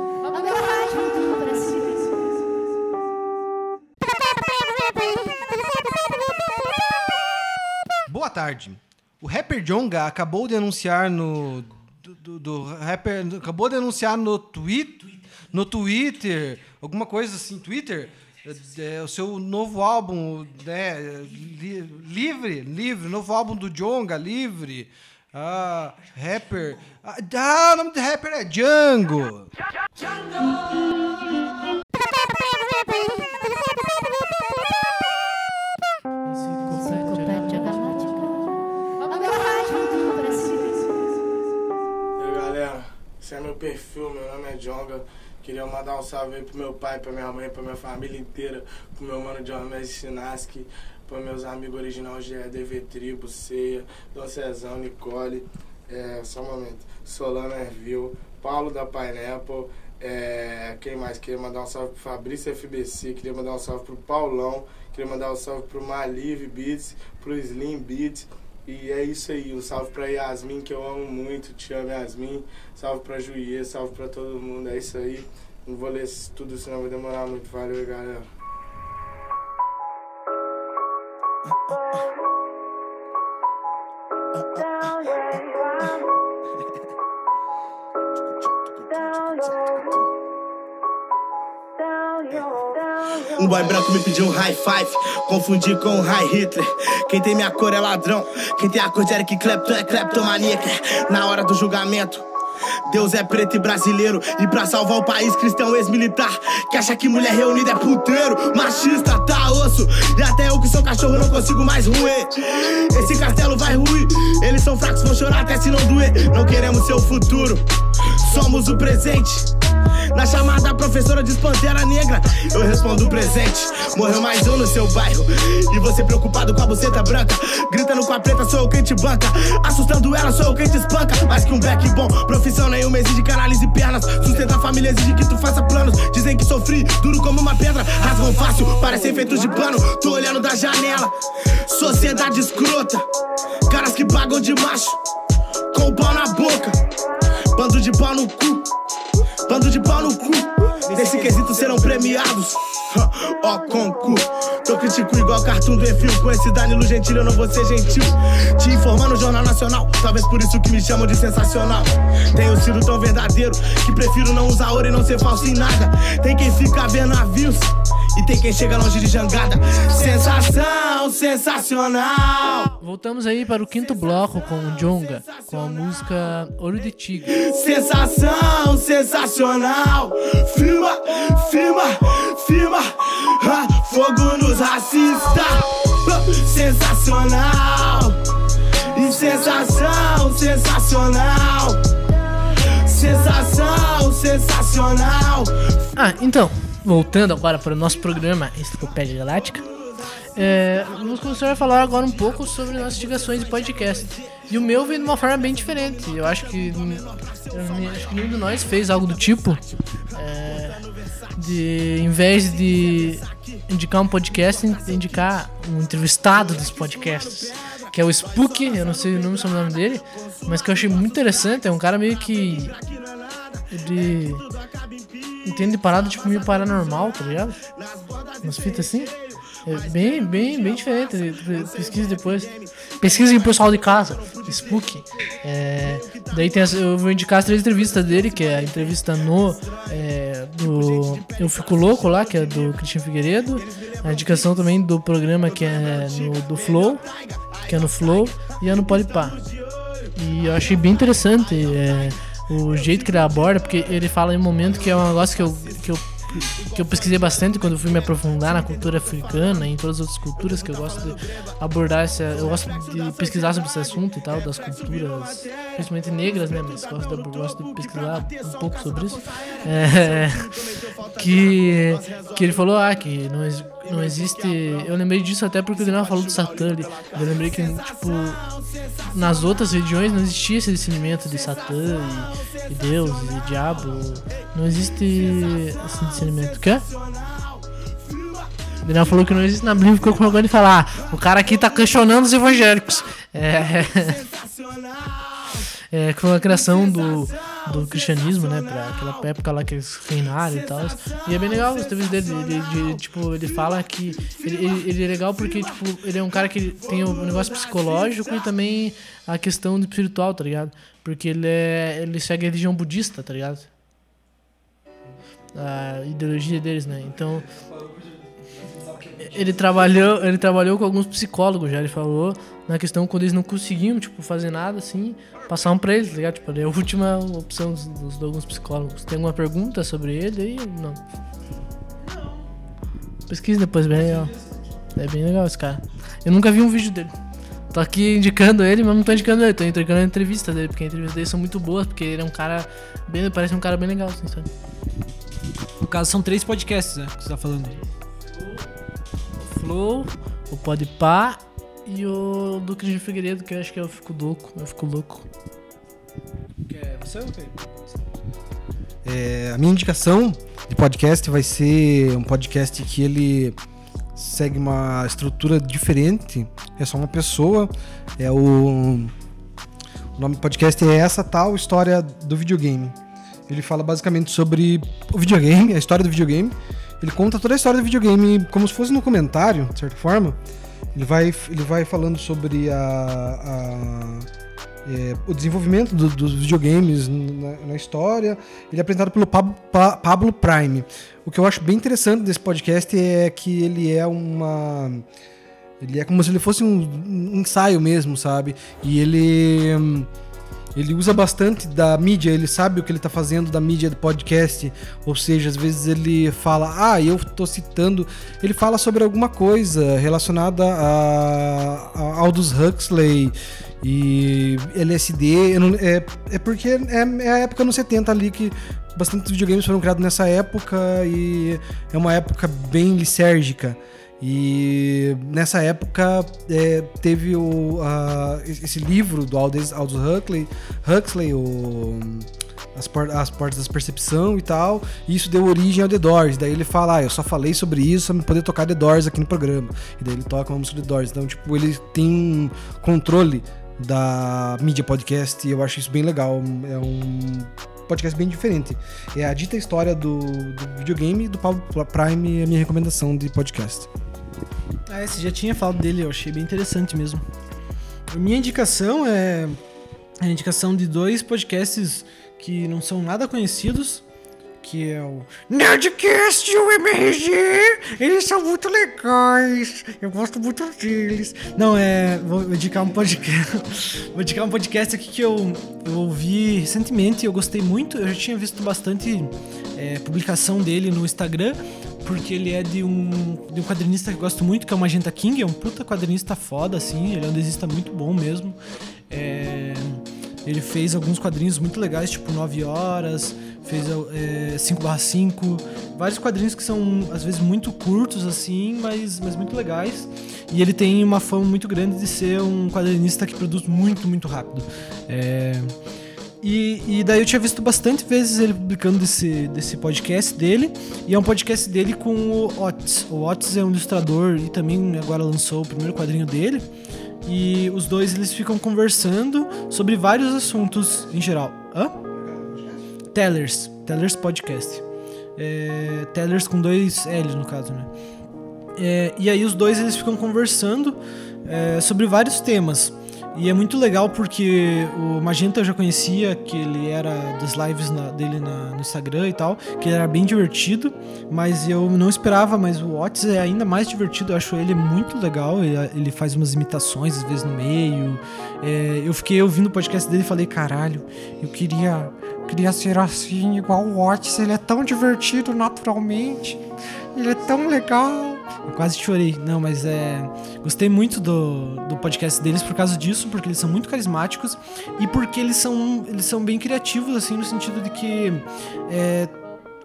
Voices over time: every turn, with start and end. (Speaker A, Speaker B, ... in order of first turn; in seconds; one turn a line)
Speaker A: 8.1-29.5
Speaker B: 42.2-78.2
Speaker C: 93.3-102.2
Speaker C: 102.9-117.6
Speaker C: 118.2-119.5
Speaker C: 120.1-141.1
Speaker C: 141.7-143.0
Speaker C: 143.7-145.0
Speaker C: 145.7-146.8
Speaker C: 147.5-148.7
Speaker C: 149.5-172.7
Speaker B: 150.9-151.2
Speaker D: 172.8-177.3
Speaker C: 173.7-176.1
Speaker C: 177.2-188.2
Speaker C: 188.9-191.8
Speaker C: 192.8-195.5
Speaker D: 195.9-199.6
Speaker C: 199.4-209.6
Speaker D: 200.3-209.6
Speaker C: 210.1-210.9
Speaker D: 210.1-210.8
Speaker D: 211.3-222.7
Speaker C: 212.3-215.4
Speaker C: 216.1-234.9
Speaker D: 223.7-224.4
Speaker D: 225.4-227.6
Speaker D: 228.4-229.1
Speaker D: 229.7-247.0
Speaker C: 235.8-236.8
Speaker C: 237.4-242.8
Speaker C: 243.5-244.8
Speaker C: 245.3-272.8
Speaker D: 247.7-249.4
Speaker D: 250.2-270.5
Speaker D: 271.2-278.4
Speaker C: 273.7-274.9
Speaker C: 275.6-279.9
Speaker D: 279.1-286.8
Speaker C: 281.0-289.2
Speaker D: 288.8-294.2
Speaker C: 291.3-292.0
Speaker C: 293.5-295.1
Speaker D: 295.9-313.7
Speaker C: 296.4-299.3
Speaker C: 300.1-308.5
Speaker D: 315.5-317.4
Speaker A: 317.4-319.8
Speaker D: 319.2-331.0
Speaker E: 332.0-332.5
Speaker D: 333.3-334.3
Speaker E: 333.9-334.6
Speaker D: 334.9-337.1
Speaker D: 337.7-344.5
Speaker E: 345.8-347.8
Speaker D: 349.4-355.3
Speaker E: 356.6-358.0
Speaker A: 359.0-363.6
Speaker A: 364.1-369.1
Speaker A: 370.1-373.0
Speaker A: 373.5-380.4
Speaker A: 380.9-384.3
Speaker A: 384.8-395.0
Speaker A: 395.8-400.1
Speaker A: 400.8-453.9
Speaker E: 454.9-457.2
Speaker E: 458.1-459.6
Speaker E: 460.2-464.0
Speaker E: 464.6-488.6
Speaker E: 489.1-505.7
Speaker E: 506.4-516.7
Speaker E: 517.2-522.0
Speaker A: 522.3-522.7
Speaker E: 523.1-524.8
Speaker E: 525.4-527.9
Speaker E: 528.8-556.6
Speaker E: 557.1-569.3